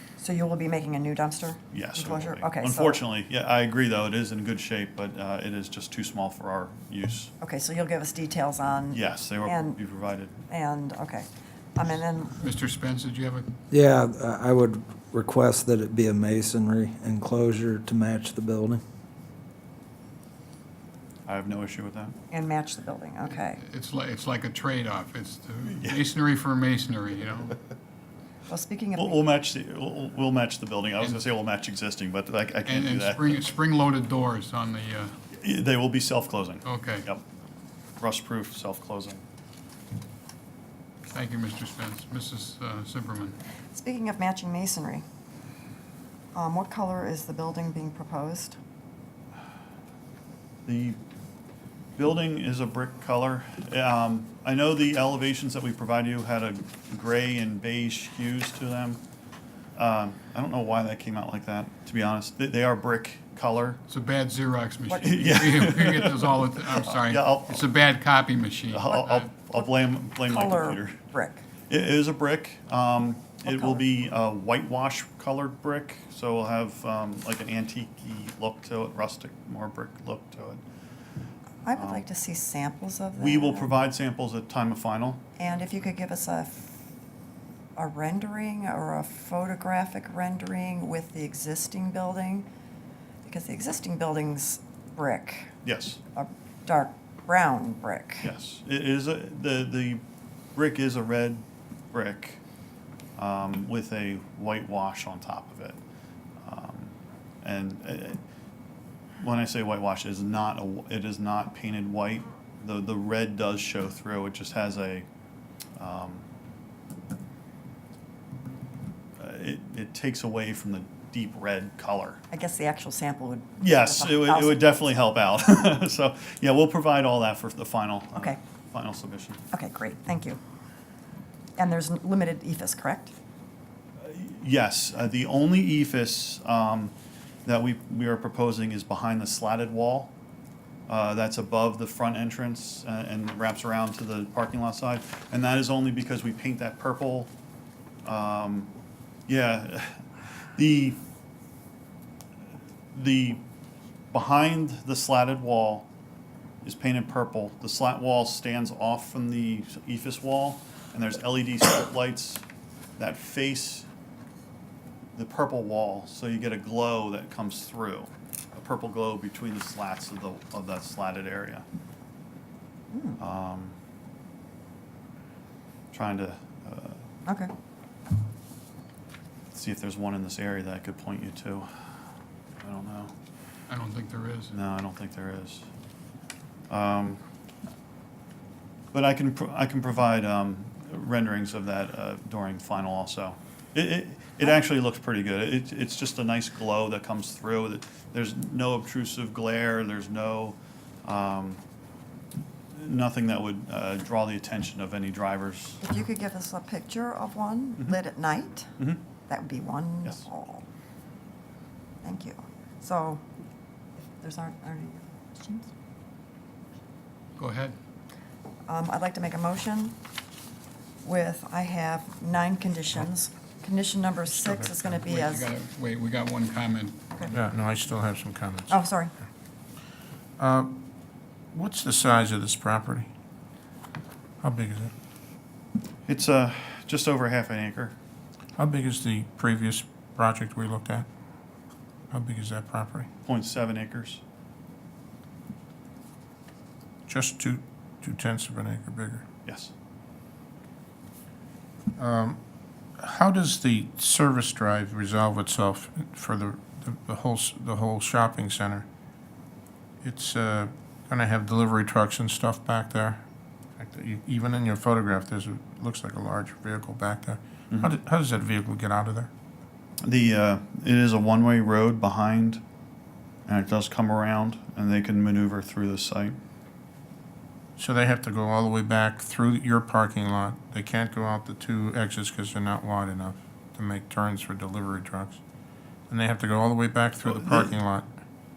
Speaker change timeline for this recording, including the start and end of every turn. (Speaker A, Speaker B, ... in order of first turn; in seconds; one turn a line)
Speaker A: 0.2-3.0
Speaker B: 1.7-7.3
Speaker A: 7.4-9.8
Speaker B: 8.9-10.4
Speaker A: 10.5-12.3
Speaker C: 12.4-13.5
Speaker D: 13.7-18.8
Speaker B: 21.3-22.2
Speaker A: 22.3-23.6
Speaker C: 23.6-27.6
Speaker B: 25.7-26.0
Speaker A: 28.5-29.3
Speaker B: 29.0-33.4
Speaker C: 32.6-35.1
Speaker B: 35.3-37.2
Speaker C: 36.6-37.1
Speaker B: 38.0-39.2
Speaker C: 41.1-43.4
Speaker A: 43.7-45.0
Speaker A: 46.3-48.6
Speaker B: 50.7-51.0
Speaker B: 52.0-59.0
Speaker B: 59.8-63.8
Speaker C: 63.9-69.3
Speaker B: 65.0-67.7
Speaker B: 68.7-71.0
Speaker A: 70.3-71.4
Speaker B: 71.7-80.6
Speaker A: 73.5-73.8
Speaker A: 81.7-83.7
Speaker B: 81.8-82.0
Speaker B: 83.2-85.3
Speaker A: 85.4-86.8
Speaker A: 87.8-92.5
Speaker A: 93.2-95.5
Speaker B: 95.6-96.0
Speaker A: 96.2-98.3
Speaker B: 98.2-100.0
Speaker B: 100.5-102.4
Speaker B: 103.2-105.8
Speaker B: 106.4-108.2
Speaker B: 109.2-115.1
Speaker B: 115.8-116.2
Speaker B: 119.2-122.2
Speaker A: 122.3-124.7
Speaker B: 123.6-129.4
Speaker A: 129.5-130.4
Speaker A: 131.6-133.1
Speaker B: 134.0-136.9
Speaker B: 137.5-140.1
Speaker B: 140.9-147.3
Speaker B: 148.1-148.7
Speaker B: 149.3-151.0
Speaker B: 152.9-153.4
Speaker B: 154.1-155.9
Speaker B: 156.6-162.4
Speaker B: 163.0-163.9
Speaker B: 165.2-171.7
Speaker A: 172.9-173.2
Speaker B: 173.2-173.8
Speaker B: 175.9-177.0
Speaker A: 177.3-177.5
Speaker B: 179.5-181.7
Speaker B: 182.6-183.1
Speaker C: 183.7-184.5
Speaker B: 184.5-185.7
Speaker B: 186.7-187.2
Speaker B: 188.9-201.6
Speaker B: 202.7-205.8
Speaker A: 205.8-208.7
Speaker A: 209.3-210.7
Speaker A: 212.0-213.2
Speaker A: 214.2-215.7
Speaker C: 217.4-217.8
Speaker A: 218.7-220.0
Speaker A: 221.0-225.5
Speaker E: 224.4-224.9
Speaker C: 225.1-227.0
Speaker E: 227.3-228.8
Speaker A: 228.7-229.1
Speaker E: 230.4-230.7
Speaker E: 231.5-233.1
Speaker E: 234.4-234.9
Speaker B: 236.1-237.9
Speaker E: 238.6-241.1
Speaker E: 242.1-243.1
Speaker B: 243.2-244.2
Speaker E: 247.1-249.2
Speaker B: 249.4-249.7
Speaker E: 252.0-252.4
Speaker E: 253.0-258.9
Speaker E: 260.0-263.2
Speaker E: 263.8-269.3
Speaker B: 270.0-272.6
Speaker B: 273.5-276.4
Speaker E: 277.8-285.4
Speaker E: 286.1-288.1
Speaker B: 287.2-287.7